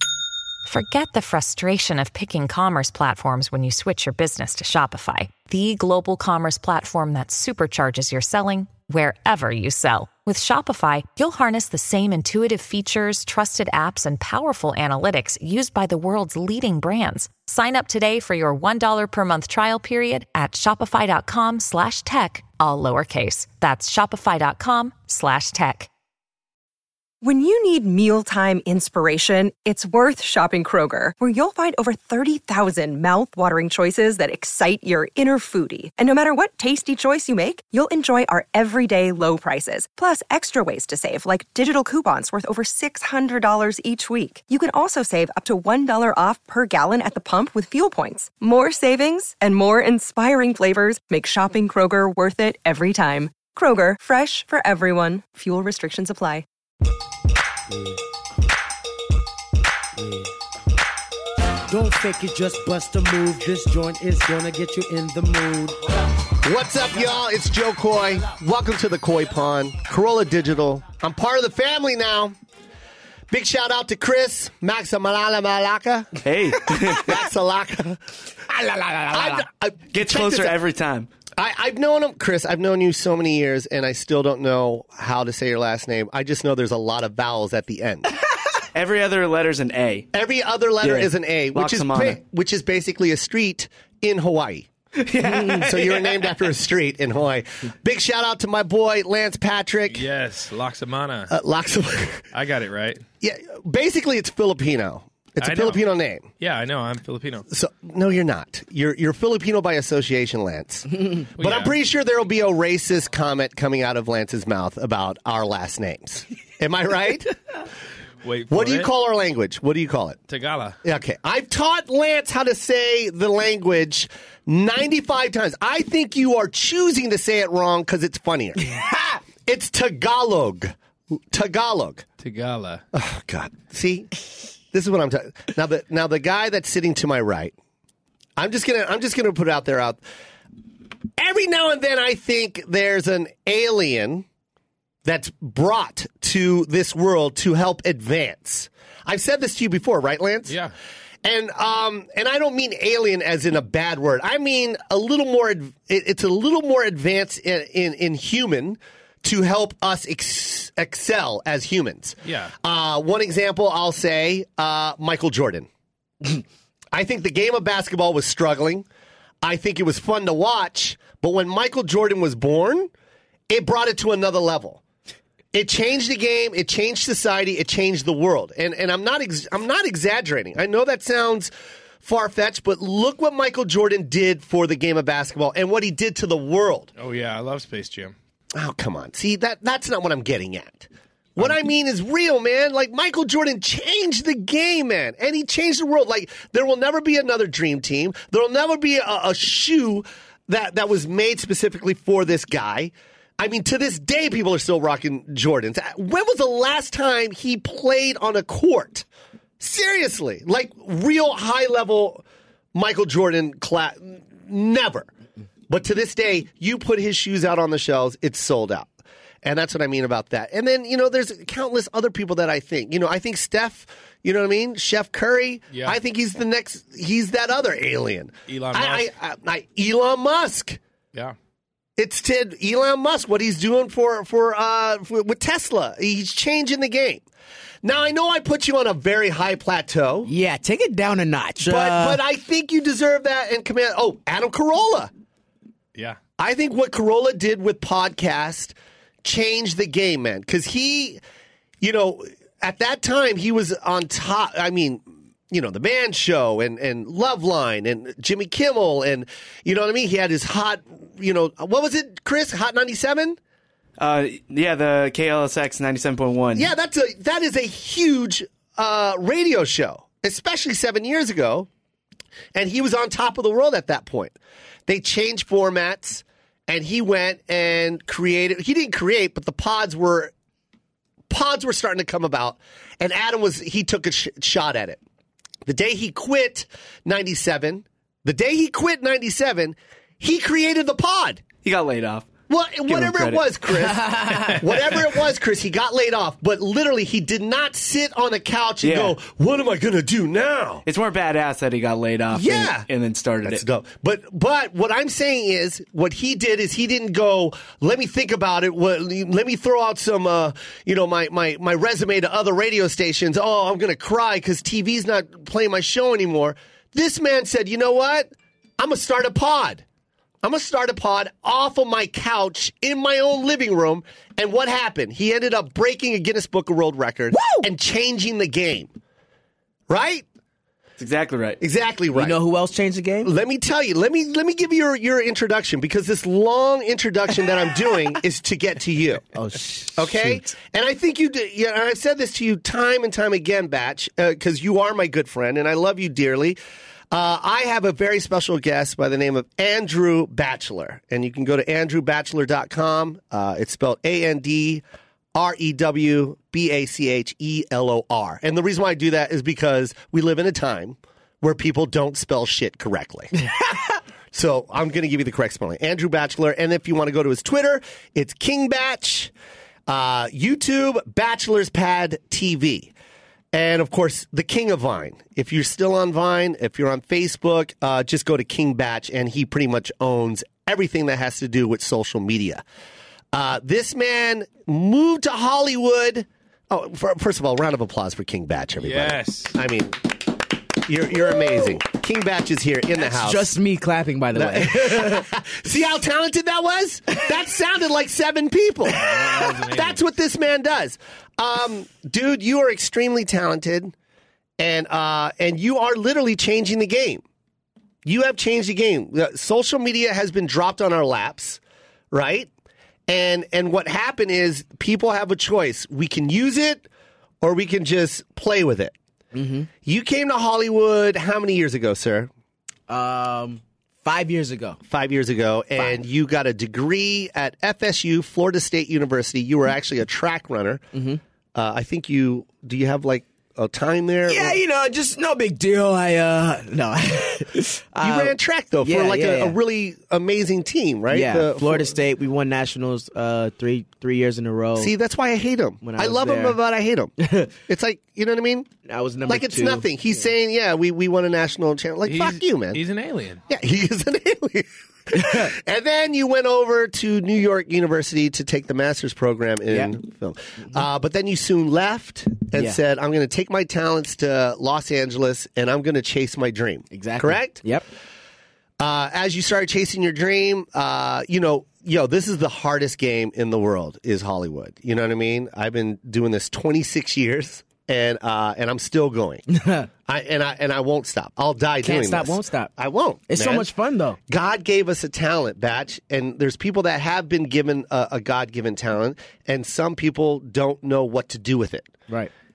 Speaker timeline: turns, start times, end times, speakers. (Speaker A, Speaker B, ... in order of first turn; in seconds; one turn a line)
Speaker A: 0.7-25.9
Speaker B: 27.2-56.4
Speaker C: 60.0-60.3
Speaker C: 61.7-65.8
Speaker D: 66.4-72.3
Speaker D: 73.3-76.2
Speaker E: 76.2-77.1
Speaker D: 77.0-78.0
Speaker F: 78.5-79.4
Speaker D: 79.1-80.5
Speaker E: 79.9-81.1
Speaker D: 81.4-88.1
Speaker E: 88.7-90.1
Speaker D: 90.1-94.7
Speaker E: 90.8-92.2
Speaker E: 95.0-96.3
Speaker D: 95.4-100.1
Speaker G: 99.9-101.3
Speaker D: 101.3-102.2
Speaker G: 102.3-103.0
Speaker D: 103.2-106.3
Speaker G: 105.4-105.8
Speaker G: 106.4-107.4
Speaker D: 107.5-117.3
Speaker G: 111.4-111.7
Speaker G: 118.2-118.9
Speaker D: 118.5-120.2
Speaker G: 120.3-120.8
Speaker D: 120.8-128.6
Speaker F: 128.7-129.1
Speaker D: 129.4-130.7
Speaker D: 131.3-132.0
Speaker G: 132.2-132.8
Speaker D: 132.9-134.1
Speaker D: 134.7-137.5
Speaker D: 138.4-140.0
Speaker D: 141.2-144.2
Speaker D: 145.0-150.6
Speaker D: 151.2-165.7
Speaker G: 162.2-162.5
Speaker D: 166.9-168.8
Speaker D: 169.4-172.9
Speaker D: 173.5-174.8
Speaker D: 175.5-181.5
Speaker D: 182.0-186.9
Speaker G: 187.0-188.1
Speaker D: 188.5-209.1
Speaker D: 209.6-215.1
Speaker D: 215.7-218.9
Speaker D: 219.4-230.8
Speaker G: 225.7-226.0
Speaker G: 228.5-229.1
Speaker D: 232.0-237.2
Speaker D: 237.8-240.3
Speaker F: 240.2-242.2
Speaker D: 241.6-245.1
Speaker D: 246.4-251.2
Speaker D: 251.8-263.4
Speaker E: 264.0-266.7
Speaker D: 266.5-271.7
Speaker D: 272.5-274.4
Speaker D: 274.9-280.3
Speaker D: 281.3-285.0
Speaker D: 285.6-291.4
Speaker E: 291.6-293.4
Speaker D: 292.5-300.8
Speaker E: 298.8-299.1
Speaker E: 300.9-303.6
Speaker D: 302.3-302.9
Speaker D: 303.4-319.8
Speaker D: 320.4-328.9
Speaker F: 327.3-327.6
Speaker D: 329.9-330.2
Speaker E: 331.0-331.6
Speaker D: 331.6-332.4
Speaker F: 332.1-333.3
Speaker D: 333.2-339.3
Speaker F: 339.3-340.5
Speaker D: 339.9-346.6
Speaker D: 347.1-354.8
Speaker D: 355.3-363.5
Speaker D: 364.3-369.3
Speaker D: 369.9-372.9
Speaker D: 373.5-382.6
Speaker D: 383.3-393.5
Speaker G: 388.8-389.5
Speaker F: 393.0-395.2
Speaker D: 394.3-403.9
Speaker G: 398.9-400.0
Speaker D: 404.6-407.2
Speaker D: 408.0-411.6
Speaker D: 412.1-412.5
Speaker D: 413.1-416.9
Speaker D: 417.4-418.9
Speaker F: 419.3-419.7
Speaker D: 419.8-422.3
Speaker F: 422.9-424.8
Speaker D: 424.9-430.8
Speaker F: 430.9-431.2
Speaker D: 431.5-434.6
Speaker F: 434.3-439.6
Speaker D: 438.0-441.9
Speaker F: 441.1-444.9
Speaker D: 444.8-448.7
Speaker F: 445.8-446.6
Speaker F: 447.2-447.5
Speaker F: 448.9-449.9
Speaker D: 449.3-452.8
Speaker G: 452.1-453.4
Speaker D: 453.5-467.6
Speaker F: 455.1-455.5
Speaker F: 466.9-467.9
Speaker D: 468.8-479.4
Speaker F: 479.5-479.9
Speaker D: 480.1-483.7
Speaker F: 481.8-482.7
Speaker F: 483.3-484.2
Speaker D: 484.3-491.9